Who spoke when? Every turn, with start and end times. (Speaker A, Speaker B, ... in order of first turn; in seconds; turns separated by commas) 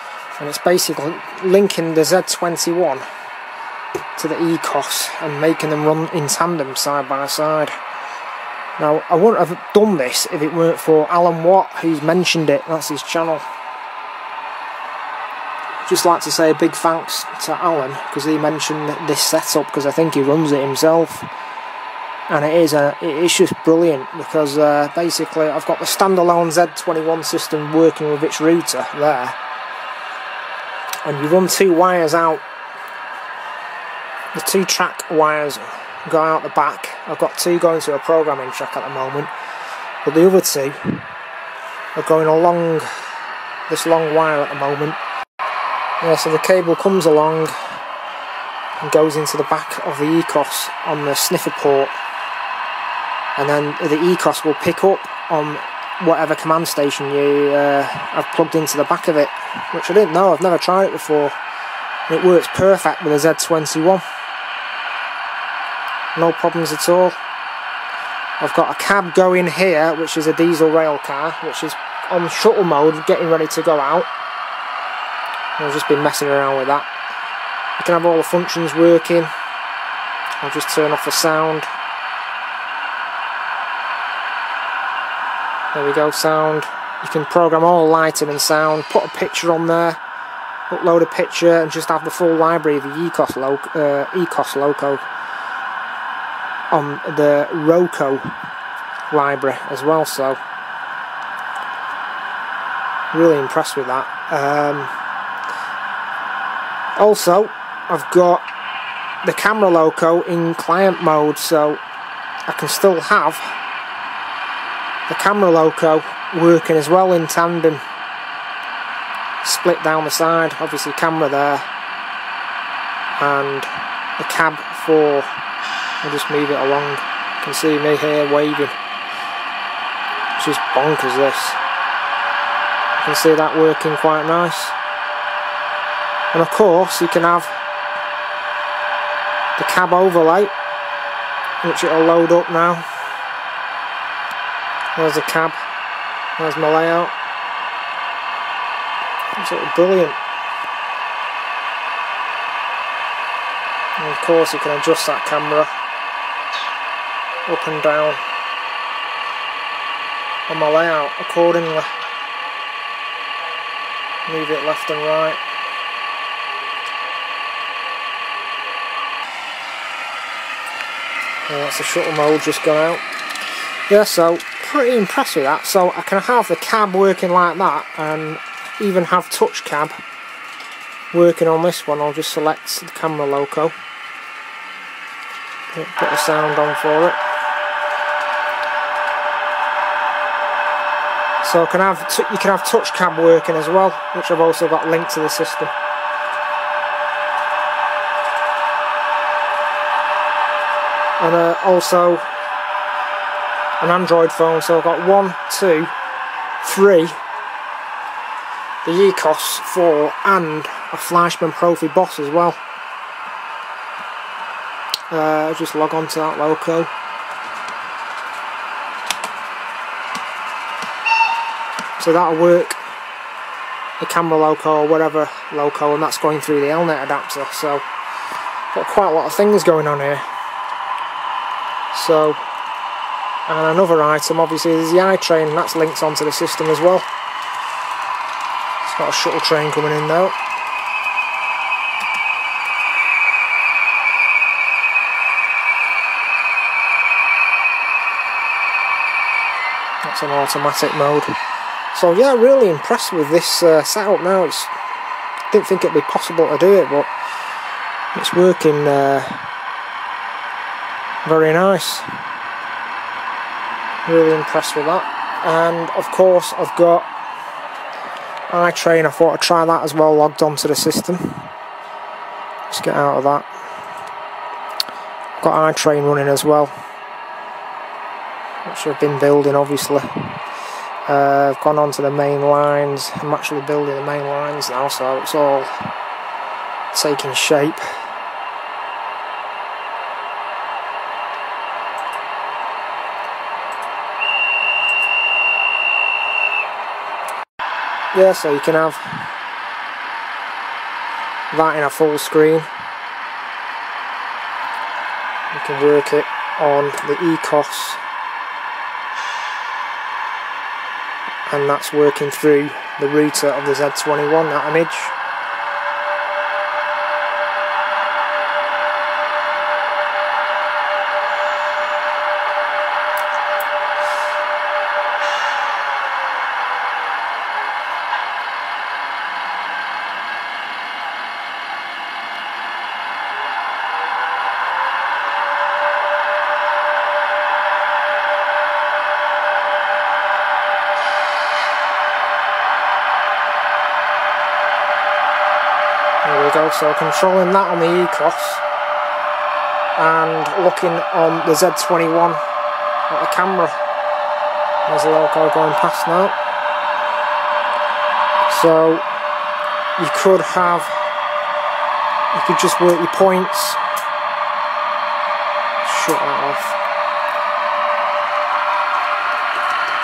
Speaker A: 0.3-3.1, Speaker A: 4.2-7.8, Speaker A: 8.8-13.4, Speaker A: 15.8-21.3, Speaker A: 22.3-29.4, Speaker A: 31.0-32.5, Speaker A: 34.3-39.3, Speaker A: 40.0-41.1, Speaker A: 42.0-42.9, Speaker A: 43.7-45.0, Speaker A: 46.0-47.7, Speaker A: 48.8-52.0, Speaker A: 53.4-61.4, Speaker A: 62.1-64.0, Speaker A: 66.2-67.2, Speaker A: 68.4-74.1, Speaker A: 75.6-76.9, Speaker A: 77.8-79.3, Speaker A: 80.4-81.7, Speaker A: 85.7-90.0, Speaker A: 90.7-95.1, Speaker A: 96.7-98.4, Speaker A: 99.1-100.4, Speaker A: 103.1-104.9, Speaker A: 107.0-108.5, Speaker A: 109.2-111.8, Speaker A: 112.5-113.6, Speaker A: 115.1-117.8, Speaker A: 119.4-121.7, Speaker A: 123.2-125.4, Speaker A: 126.0-128.8, Speaker A: 130.4-131.6, Speaker A: 132.9-134.8, Speaker A: 136.3-137.6, Speaker A: 139.6-140.5, Speaker A: 141.6-142.9, Speaker A: 144.9-145.6, Speaker A: 146.4-147.2, Speaker A: 149.4-150.2, Speaker A: 154.0-155.7, Speaker A: 157.5-158.2, Speaker A: 160.5-161.9, Speaker A: 164.3-165.4, Speaker A: 171.5-180.0, Speaker A: 181.1-183.8, Speaker A: 185.7-187.2, Speaker A: 191.4-195.7, Speaker A: 201.2-202.3, Speaker A: 203.8-205.9, Speaker A: 206.6-207.2, Speaker A: 208.8-212.6, Speaker A: 215.1-216.9, Speaker A: 222.0-222.8, Speaker A: 224.0-227.9, Speaker A: 228.7-230.3, Speaker A: 231.9-232.4, Speaker A: 233.5-237.1, Speaker A: 238.8-240.4, Speaker A: 250.0-251.4, Speaker A: 251.9-254.7, Speaker A: 255.5-257.1, Speaker A: 258.1-259.4, Speaker A: 261.2-262.1, Speaker A: 264.1-267.1, Speaker A: 268.5-271.5, Speaker A: 272.7-273.5, Speaker A: 275.4-276.8, Speaker A: 278.6-280.4, Speaker A: 281.1-285.9, Speaker A: 286.9-287.9, Speaker A: 298.1-299.3, Speaker A: 301.5-302.7, Speaker A: 305.5-308.0, Speaker A: 311.5-315.2, Speaker A: 346.2-348.6, Speaker A: 350.0-352.4, Speaker A: 353.1-353.8, Speaker A: 354.9-356.4, Speaker A: 358.4-359.1, Speaker A: 360.0-361.1, Speaker A: 362.3-363.8, Speaker A: 365.8-366.8